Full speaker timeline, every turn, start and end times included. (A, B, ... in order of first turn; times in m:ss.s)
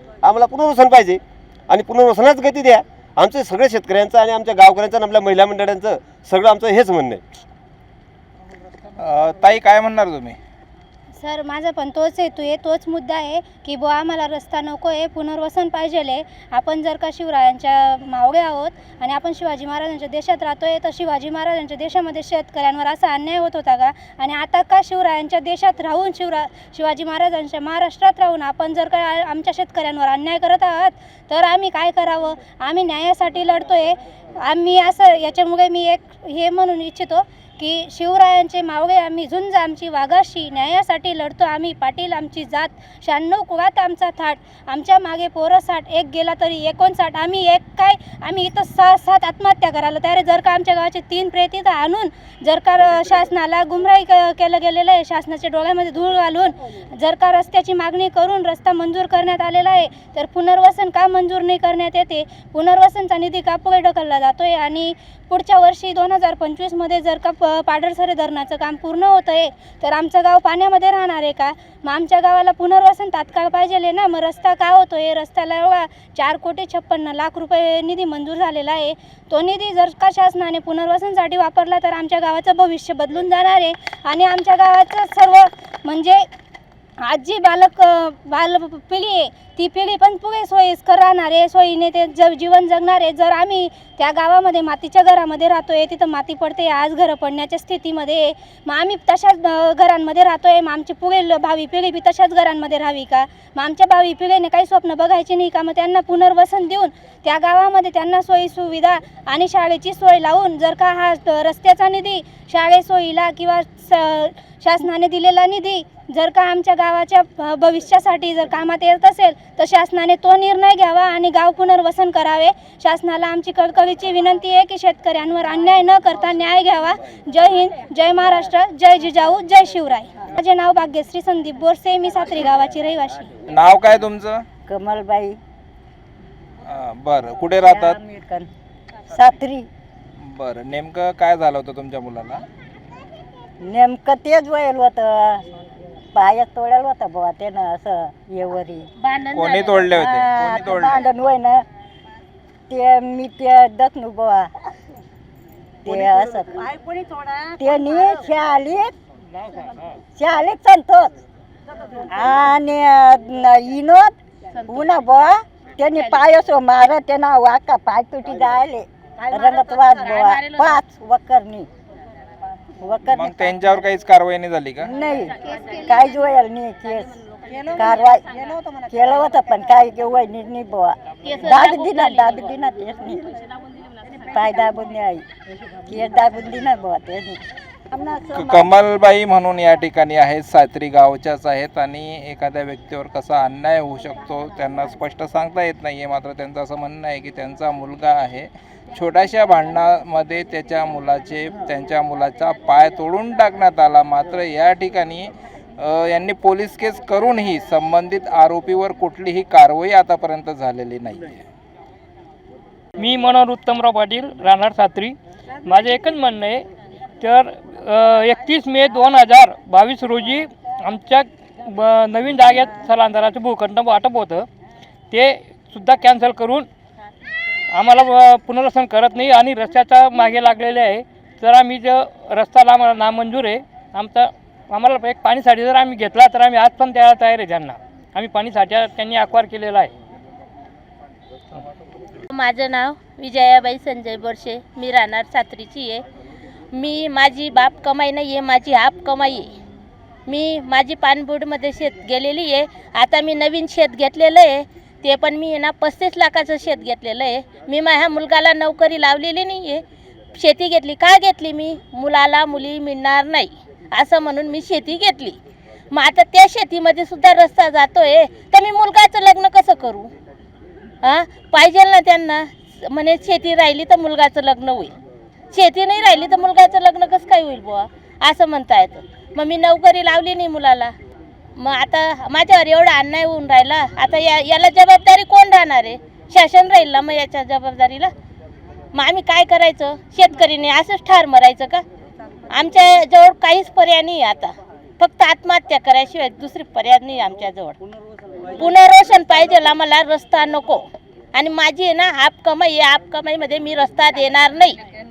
0:00.2-0:07.2 A
0:09.0-0:10.4 B
0:11.2-1:26.3 C
1:27.0-2:13.3 C
2:13.5-2:14.4 B
2:14.7-2:15.4 D
2:16.6-2:18.0 B
2:17.6-2:18.5 D
2:19.1-2:19.7 D
2:20.2-2:22.4 B
2:23.6-2:25.4 D
2:26.1-2:28.9 D
2:29.0-2:29.9 E
2:29.3-2:31.0 B
2:29.9-2:31.6 D
2:32.7-2:34.5 D
2:35.8-2:36.8 D
2:37.4-2:38.9 D
2:39.3-2:39.9 F
2:40.2-2:41.1 D
2:42.1-2:44.1 D
2:44.6-2:44.9 E
2:44.7-2:51.7 D
2:49.3-2:50.8 E
2:52.8-2:53.7 D
2:53.1-2:54.9 B
2:54.8-2:58.3 D
2:58.8-3:03.4 D
3:01.2-3:02.5 E
3:04.2-3:05.2 D
3:05.8-3:08.4 D
3:08.3-3:31.5 B
3:33.0-3:36.6 F
3:37.2-3:44.5 F
3:45.1-3:46.7 F
3:47.7-3:59.9 F
4:02.3-4:06.0 E
4:06.7-4:09.5 E
4:10.2-4:19.8 E
4:20.3-4:25.4 E
4:25.9-4:30.1 E
4:31.0-4:35.0 E
4:35.5-4:40.9 E
4:41.6-4:48.1 E
4:48.9-4:51.8 E
4:52.5-4:57.8 E
4:58.6-5:04.8 E